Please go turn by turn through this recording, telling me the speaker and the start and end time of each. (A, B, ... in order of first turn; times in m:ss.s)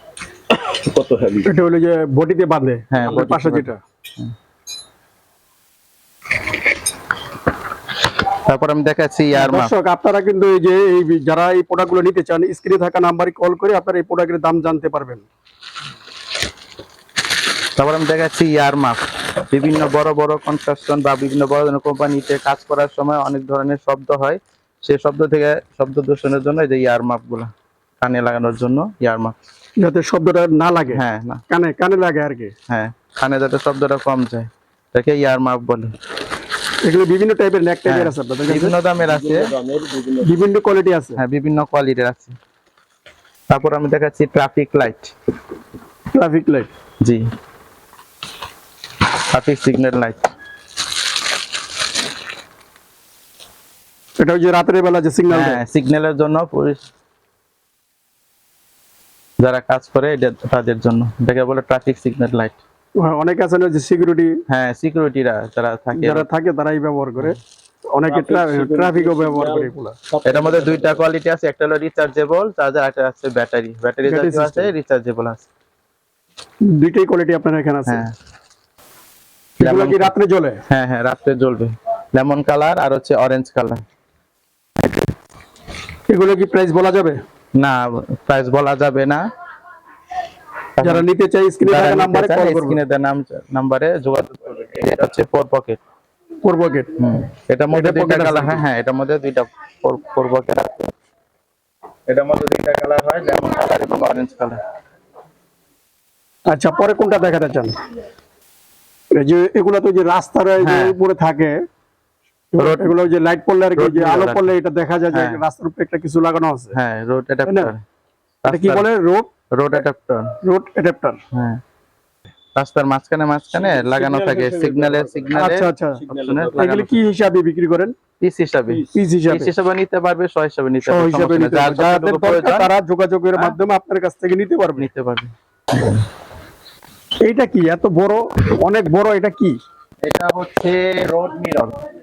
0:00.8-0:01.5 A
0:01.4-0:03.8 B
0:02.9-0:04.3 C
0:08.4-0:09.7 C
0:09.3-0:15.3 B
0:17.8-0:27.5 C
0:28.0-0:29.4 C
0:29.8-0:32.5 B
0:30.9-0:31.4 C
0:32.7-0:35.9 C
0:36.8-0:38.8 B
0:37.9-0:39.5 C
0:39.0-0:40.5 A
0:40.2-0:41.2 B
0:41.2-0:42.4 C
0:43.5-0:45.1 C
0:46.1-0:46.7 B
0:49.3-0:50.3 C
0:54.2-0:55.6 B
0:55.3-0:56.8 C
0:59.4-1:02.6 C
1:03.0-1:04.3 B
1:04.5-1:06.3 C
1:05.9-1:07.4 B
1:07.9-1:10.0 B
1:08.1-1:11.0 A
1:10.2-1:15.5 C
1:14.0-1:14.7 B
1:16.7-1:18.0 B
1:17.9-1:18.1 C
1:19.6-1:20.6 B
1:19.6-1:20.1 C
1:20.7-1:23.8 C
1:26.1-1:27.2 B
1:27.6-1:29.2 C
1:30.8-1:31.0 C
1:30.8-1:32.8 B
1:31.7-1:35.8 C
1:36.4-1:36.9 B
1:37.0-1:40.9 C
1:37.7-1:38.6 B
1:42.1-1:44.6 C
1:46.5-1:47.8 B
1:49.1-1:51.6 B
1:50.6-1:51.0 C
1:52.5-1:56.8 B
1:52.6-1:53.0 C
1:53.8-1:54.5 C
1:55.1-1:55.4 C
1:56.7-1:57.8 C
1:57.5-1:57.7 B
1:58.4-1:58.9 C
1:58.5-1:59.3 B
1:59.5-2:00.4 C
2:00.4-2:01.2 B
2:01.3-2:01.6 C
2:02.6-2:07.0 C
2:03.5-2:05.4 A
2:05.3-2:06.0 B
2:06.0-2:06.8 A
2:06.6-2:07.9 B
2:08.2-2:12.7 C
2:08.7-2:09.0 A
2:08.9-2:09.5 B
2:10.8-2:14.9 B
2:14.8-2:16.0 C
2:17.2-2:19.6 B
2:20.0-2:21.8 C